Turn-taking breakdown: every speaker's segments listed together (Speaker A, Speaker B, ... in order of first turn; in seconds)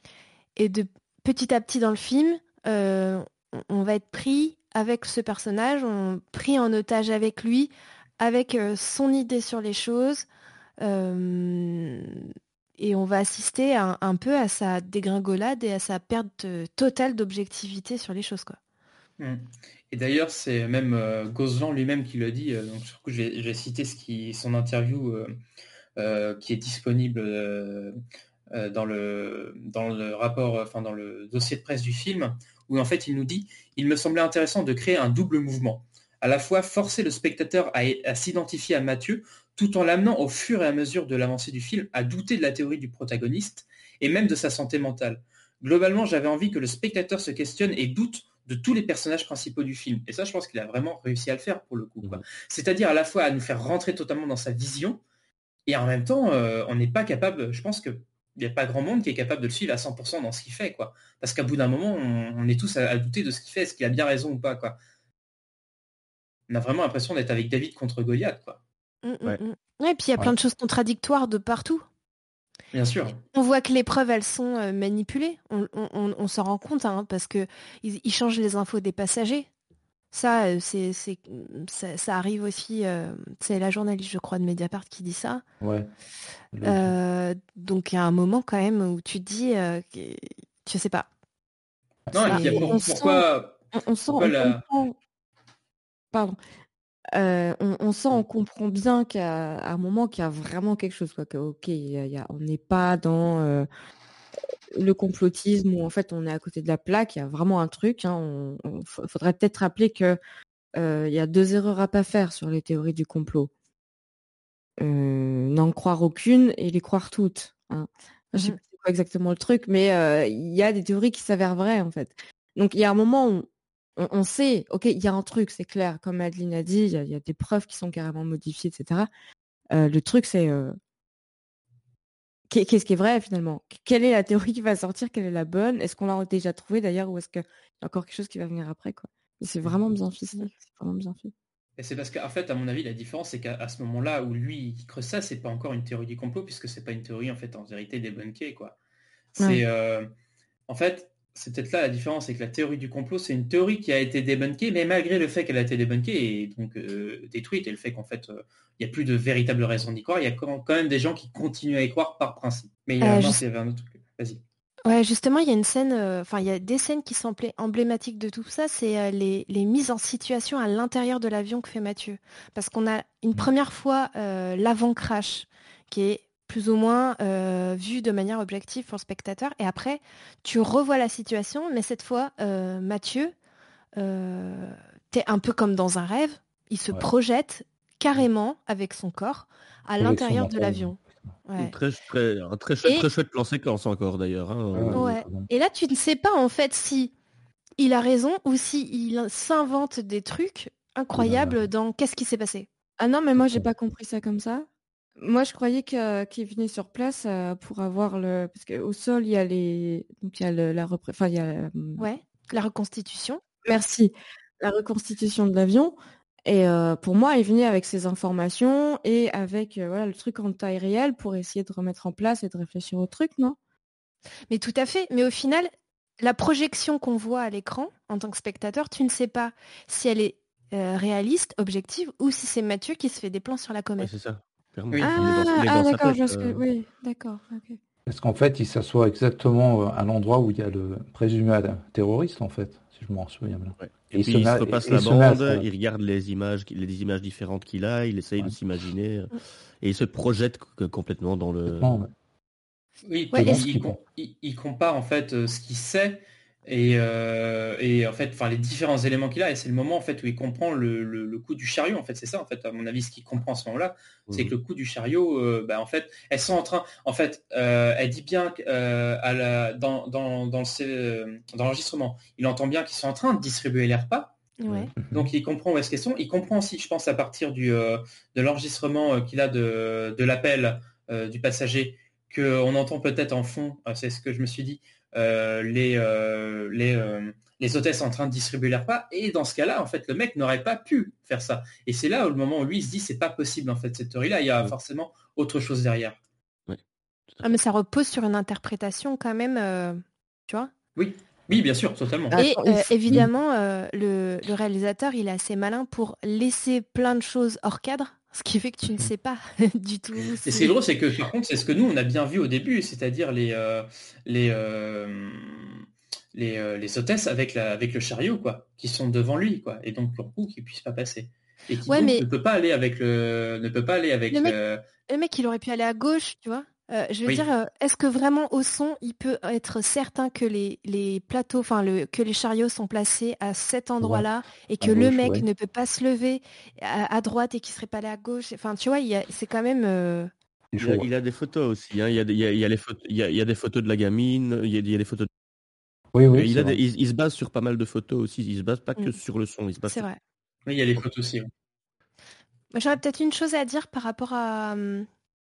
Speaker A: 0.6-10.3, 10.8-18.6, 69.0-71.8, 73.3-79.5, 80.1-85.4, 86.6-91.1, 92.2-92.8, 163.0-163.4, 164.8-183.3, 183.9-191.7, 194.9-197.1, 197.8-202.7, 212.0-213.4, 224.5-234.1, 253.3-253.6, 274.6-274.9, 297.4-300.7, 302.4-310.7, 321.9-322.3, 324.3-340.3, 349.8-350.2, 352.7-355.1
Speaker B: 19.2-25.3, 26.0-27.9, 28.5-55.0, 55.6-64.8, 66.5-68.6, 72.7-73.2, 92.1-93.6, 94.1-94.6, 141.8-148.7, 149.4-150.1, 150.7-164.4, 253.1-274.3, 275.1-296.2, 300.9-302.4, 310.4-315.8, 316.3-324.8, 350.6-351.5
Speaker C: 85.6-85.9, 86.5-86.9, 190.0-191.3, 194.7-195.5, 201.1-201.7, 203.3-203.6, 238.1-245.7, 251.7-252.1, 253.3-254.0, 275.0-275.3, 334.0-334.3, 334.8-335.5, 340.7-341.1, 346.1-346.8
Speaker D: 92.3-95.0, 96.1-96.4, 97.1-103.7, 104.7-110.2, 110.8-113.5, 114.8-129.1, 129.7-130.8, 132.5-141.3, 203.0-204.7, 205.2-212.1, 213.6-223.6, 235.0-237.8, 302.3-302.9
Speaker E: 191.5-195.1, 234.0-236.6, 243.8-252.1, 264.3-264.5, 340.8-345.3, 346.3-350.1